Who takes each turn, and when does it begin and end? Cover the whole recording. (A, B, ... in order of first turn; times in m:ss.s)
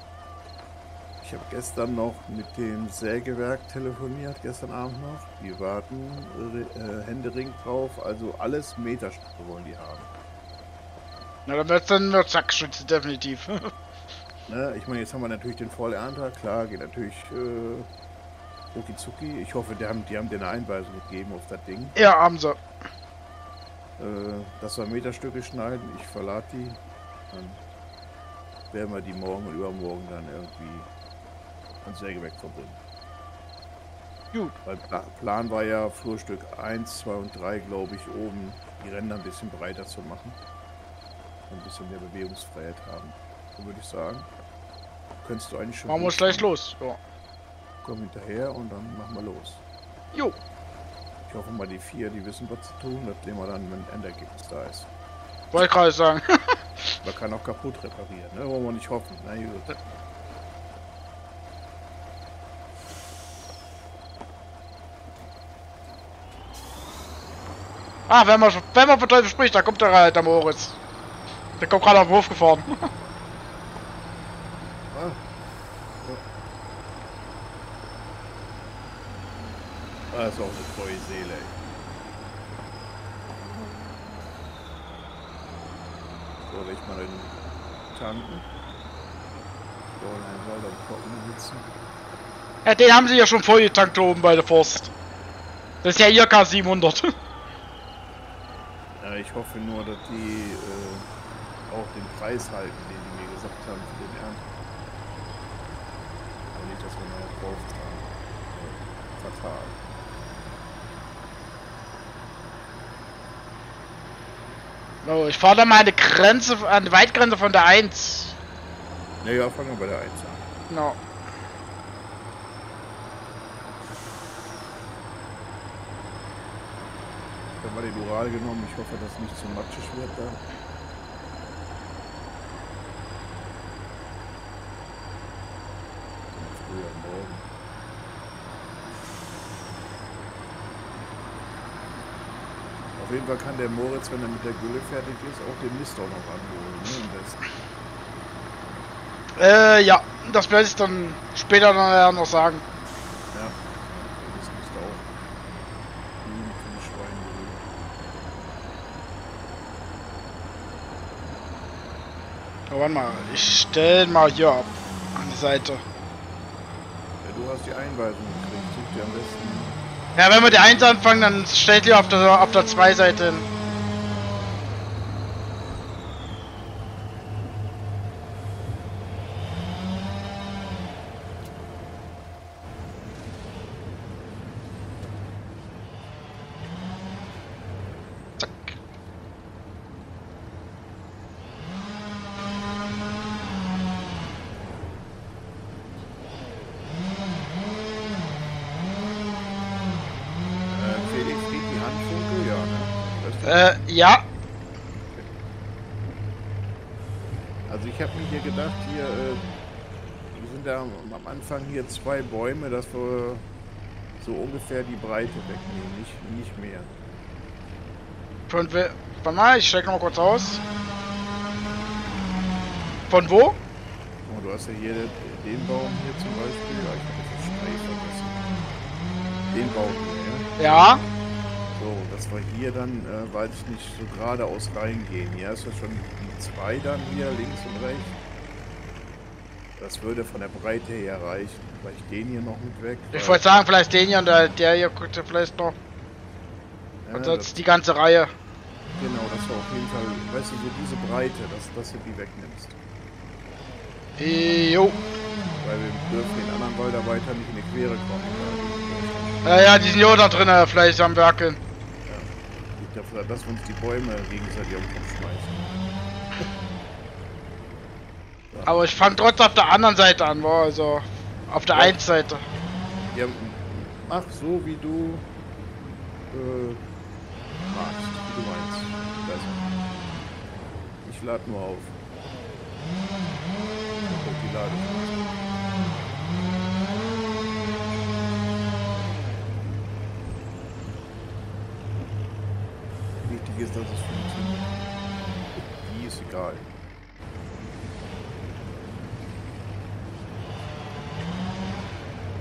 0:01.2-0:10.1 A
0:11.5-0:13.7 B
0:14.5-0:17.9 A
0:18.7-0:22.0 A
0:22.0-0:22.6 B
0:24.0-0:27.6 A
0:28.7-0:30.9 A
0:31.8-0:32.8 A
0:34.6-0:40.4 A
0:41.5-0:44.3 A
0:45.2-0:46.5 A
0:45.9-0:47.0 B
0:47.8-0:49.6 A
0:51.2-0:54.9 A
0:55.5-0:56.6 B
0:57.0-0:59.8 A
1:08.1-1:10.8 B
1:11.6-1:12.9 B
1:14.9-1:15.2 A
1:20.1-1:21.6 A
1:26.4-1:28.4 A
1:30.0-1:31.7 A
1:32.6-1:34.9 B
1:35.8-1:37.1 B
1:39.0-1:41.1 A
1:41.7-1:44.4 A
1:46.5-1:49.8 A
1:55.0-1:58.4 B
1:59.2-2:00.4 A
2:00.7-2:01.0 B
2:07.6-2:10.4 A
2:16.3-2:17.5 A
2:23.0-2:27.4 A
2:29.4-2:32.6 B
2:33.3-2:35.1 A
2:36.2-2:37.7 A
2:42.7-2:45.8 B
2:47.2-2:49.8 A
2:50.2-2:53.4 B
3:08.4-3:08.7 B
3:20.7-3:23.6 A
3:23.4-3:24.2 B
3:27.6-3:29.5 A
3:30.3-3:33.4 A
3:34.2-3:36.9 A
3:38.5-3:40.6 B
3:43.1-3:43.6 B
3:44.2-3:48.7 A
3:49.5-3:51.1 A
3:50.6-3:51.0 B
3:51.7-3:58.2 A
3:59.8-4:03.4 A
4:03.1-4:05.8 B
4:07.0-4:07.5 A
4:07.1-4:08.3 B
4:09.0-4:12.8 A
4:14.2-4:15.0 B
4:15.6-4:19.4 A
4:19.4-4:21.6 B
4:22.0-4:25.7 A
4:28.5-4:28.8 A
4:28.6-4:32.4 B
4:31.7-4:32.0 A
4:33.1-4:35.2 A
4:36.3-4:36.8 A
4:37.7-4:39.6 A
4:41.0-4:41.9 A
4:44.0-4:45.2 A
4:53.2-4:54.7 A
4:55.8-4:56.6 A